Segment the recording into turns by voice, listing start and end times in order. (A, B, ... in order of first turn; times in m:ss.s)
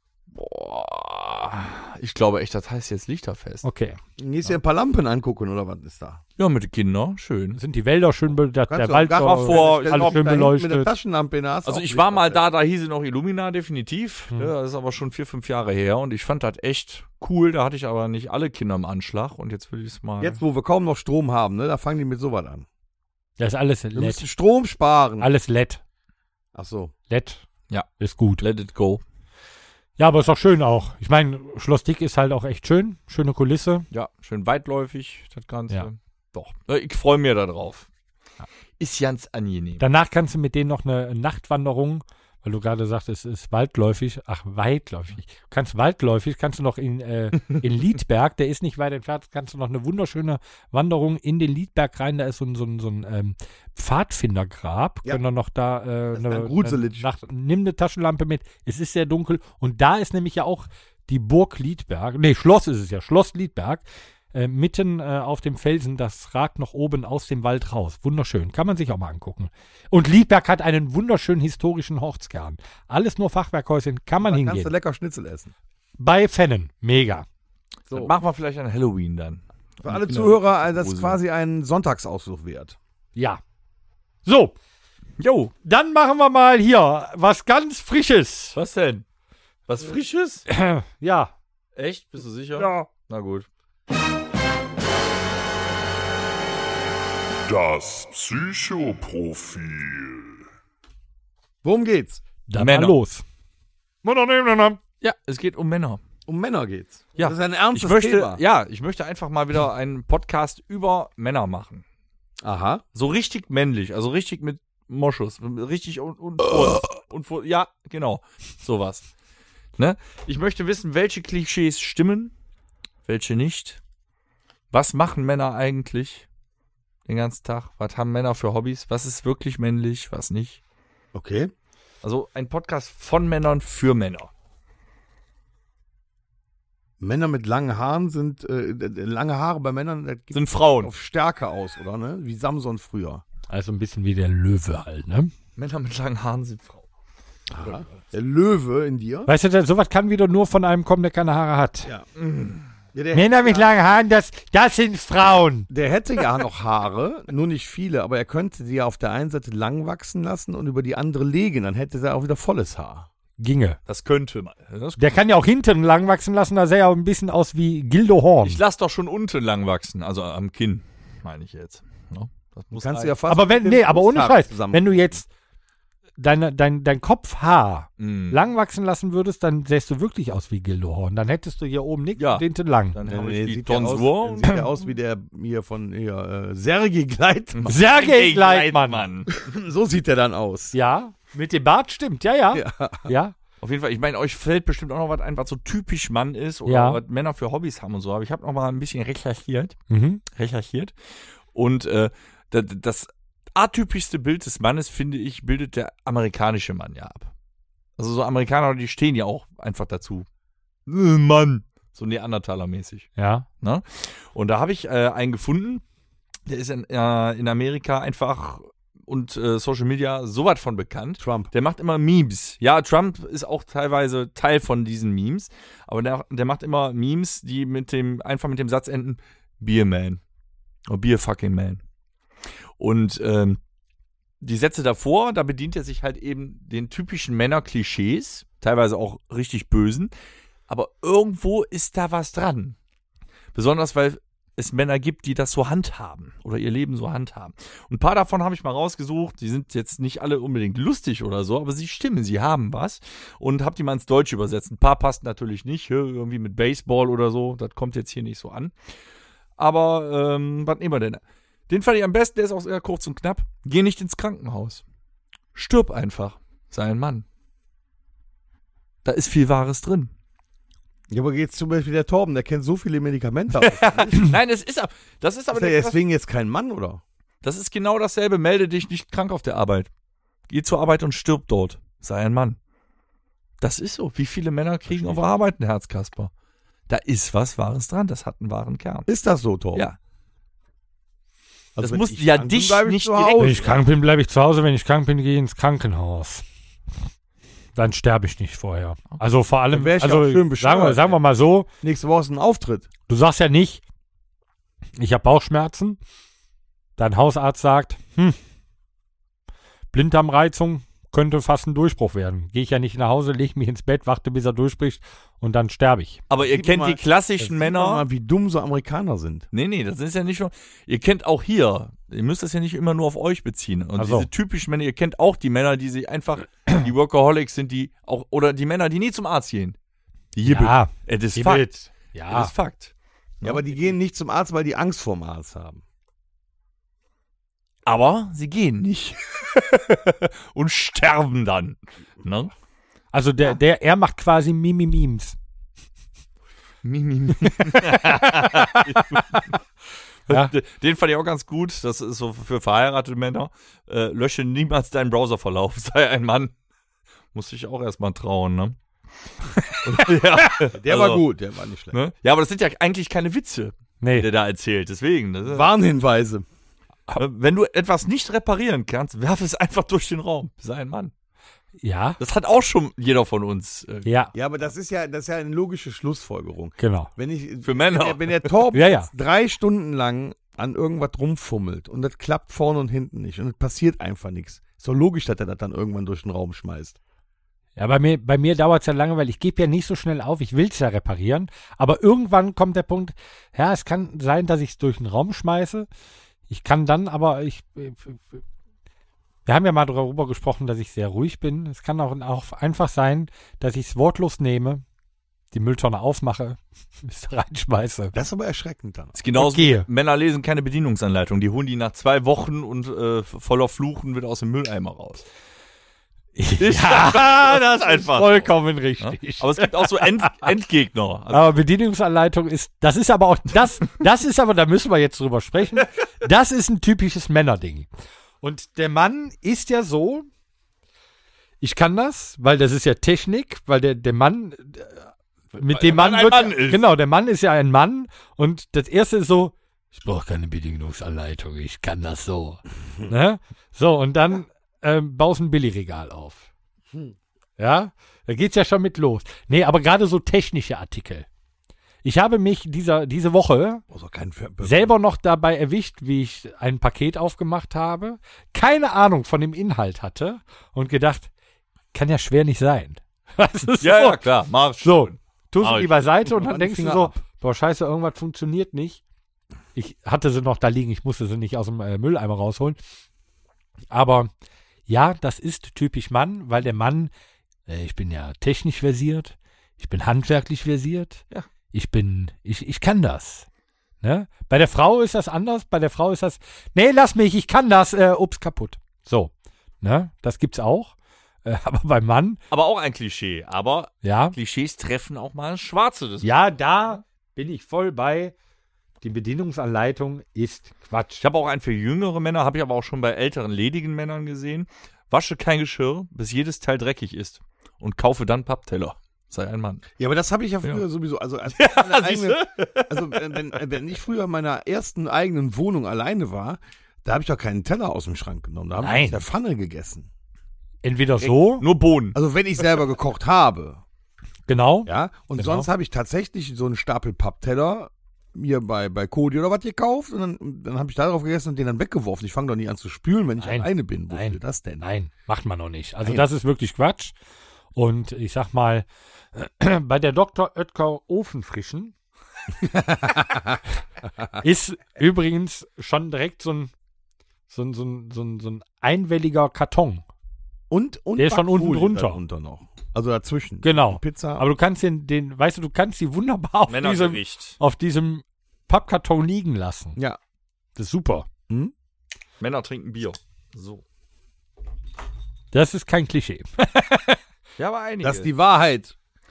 0:00.3-0:03.6 A
0:03.6-0:04.0 B
0:04.2-0:06.2 C
0:06.4-0:07.6 A
0:07.6-0:10.9 B
0:08.7-0:12.4 C
0:09.2-0:10.3 A
0:11.7-0:20.4 A
0:20.2-0:22.7 C
0:23.4-0:24.3 B
0:23.9-0:25.3 C
0:25.2-0:25.8 B
0:26.5-0:26.9 C
0:27.1-0:27.4 B
0:28.0-0:28.4 B
0:28.4-0:29.0 A
0:30.0-0:33.9 B
0:33.9-0:37.9 A
0:38.8-0:39.8 A
0:39.8-1:14.7 B
0:56.1-0:57.1 C
1:14.2-1:15.5 C
1:16.0-1:17.3 B
1:17.9-1:21.2 A
1:19.8-1:22.8 C
1:23.2-1:23.4 B
1:24.2-1:24.6 B
1:25.2-1:25.5 A
1:25.6-1:28.6 B
1:28.6-1:29.0 A
1:29.7-1:30.4 A
1:30.5-1:31.3 B
1:31.8-1:33.5 A
1:32.6-1:32.9 B
1:37.5-1:40.4 D
1:41.6-1:42.2 C
1:42.5-1:43.2 B
1:42.6-1:43.0 A
1:44.0-1:44.8 B
1:45.0-1:46.0 A
1:46.3-1:48.4 C
1:47.2-1:51.8 A
1:52.4-1:52.8 C
1:52.9-1:59.1 A
1:59.8-2:02.3 A
2:03.1-2:03.8 A
2:04.7-2:06.3 A
2:07.1-2:10.6 A
2:11.1-2:11.5 C
2:12.0-2:14.3 A
2:17.0-2:23.2 C
2:20.3-2:20.9 A
2:23.5-2:25.3 B
2:25.6-2:26.8 A
2:27.5-2:29.3 C
2:27.6-2:27.9 A
2:29.3-2:31.9 B
2:32.2-2:32.7 A
2:32.9-2:33.7 C
2:33.1-2:35.7 B
2:35.7-2:43.1 C
2:43.4-2:43.8 B
2:43.9-2:45.1 A
2:45.0-2:48.6 B
2:48.4-2:53.1 A
2:52.8-2:55.2 C
2:53.3-2:55.3 B
2:56.2-3:03.0 B
2:58.0-2:58.4 A
3:02.2-3:04.6 A
3:03.1-3:07.7 C
3:07.6-3:09.4 A
3:07.7-3:09.0 B
3:09.3-3:10.8 C
3:10.7-3:13.4 B
3:12.5-3:13.1 C
3:13.6-3:19.8 A
3:16.7-3:17.0 B
3:19.9-3:20.2 B
3:20.3-3:20.9 A
3:21.5-3:27.3 A
3:28.0-3:30.3 A
3:30.9-3:33.1 A
3:33.2-3:33.5 B
3:33.6-3:35.8 A
3:36.5-3:50.2 A
3:41.2-3:41.5 C
3:50.9-3:51.8 A
3:52.8-3:53.6 A
3:54.4-4:00.1 A
4:00.7-4:02.8 A
4:03.6-4:18.7 A
4:19.6-4:24.8 A
4:25.6-4:27.2 A
4:29.0-4:30.1 A
4:31.1-4:34.3 C
4:33.6-4:36.0 A
4:35.5-4:37.0 C
4:37.4-4:39.9 A
4:40.5-4:42.6 A
4:43.6-4:46.3 A
4:44.9-4:45.2 C
4:46.9-4:49.1 A
4:49.1-4:49.9 C
4:51.8-4:53.8 C
4:51.8-4:53.7 A
4:53.4-4:56.4 B
4:57.8-5:01.7 B
4:59.7-5:01.2 C
5:01.8-5:02.9 C
5:03.1-5:03.8 B
5:05.0-5:06.0 B
5:07.0-5:08.4 B
5:09.9-5:16.2 B
5:16.3-5:18.0 A
5:16.4-5:19.5 C
5:19.5-5:29.8 A
5:24.0-5:24.3 B
5:30.3-5:31.7 A
5:30.4-5:32.5 B
5:32.3-5:33.8 A
5:33.4-5:35.8 C
5:37.9-5:42.5 A
5:43.1-5:45.4 B
5:46.8-5:49.4 A
5:47.4-5:49.4 B
5:50.3-5:56.5 A
5:57.3-5:58.8 A
5:59.4-6:01.2 A
6:00.7-6:02.0 C
6:01.9-6:05.7 A
6:04.0-6:04.3 B
6:05.5-6:06.4 C
6:07.2-6:11.1 A
6:11.8-6:12.2 B
6:12.2-6:14.1 A
6:14.0-6:14.3 B
6:14.3-6:27.0 C
6:16.8-6:17.1 B
6:17.6-6:18.5 A
6:18.7-6:19.1 B
6:27.8-6:35.9 B
6:36.5-6:38.4 B
6:39.5-6:44.8 B
6:45.5-6:48.1 B
6:48.1-6:49.2 C
6:49.2-6:55.2 A
6:49.4-6:49.9 B
6:56.4-7:00.4 B
6:56.6-7:01.6 A
7:01.3-7:07.9 B
7:08.4-7:10.3 B
7:11.6-7:26.5 B
7:15.7-7:16.8 A
7:27.6-7:31.3 B
7:32.0-7:33.8 B
7:33.9-7:34.9 C
7:34.6-7:41.3 B
7:41.9-7:44.2 B
7:43.8-7:46.0 A
7:44.8-7:49.0 B
7:46.3-7:47.2 C
7:49.8-7:52.8 B
7:53.9-7:54.3 B
7:54.9-7:57.1 B
7:57.7-8:03.5 B
8:04.0-8:10.9 B
8:11.4-8:12.4 B
8:12.5-8:16.4 A
8:14.0-8:14.4 B
8:16.2-8:18.3 B
8:19.0-8:21.2 B
8:21.2-8:29.8 A
8:30.0-8:40.1 C
8:31.5-8:33.4 A
8:38.8-8:39.2 B
8:40.8-8:41.6 B
8:41.2-8:42.2 A
8:42.1-8:43.8 C
8:44.5-8:45.7 B
8:44.9-8:54.8 C
8:53.4-8:57.2 B
8:57.8-9:01.9 B
9:02.6-9:03.6 C
9:04.4-9:06.7 B
9:07.5-9:10.0 B
9:10.7-9:14.5 C
9:11.2-9:12.2 B
9:13.6-9:20.0 B
9:16.7-9:17.6 A
9:20.8-9:21.3 B
9:22.4-9:23.8 A
9:25.5-9:27.2 B
9:27.6-9:28.3 A
9:28.0-9:29.0 C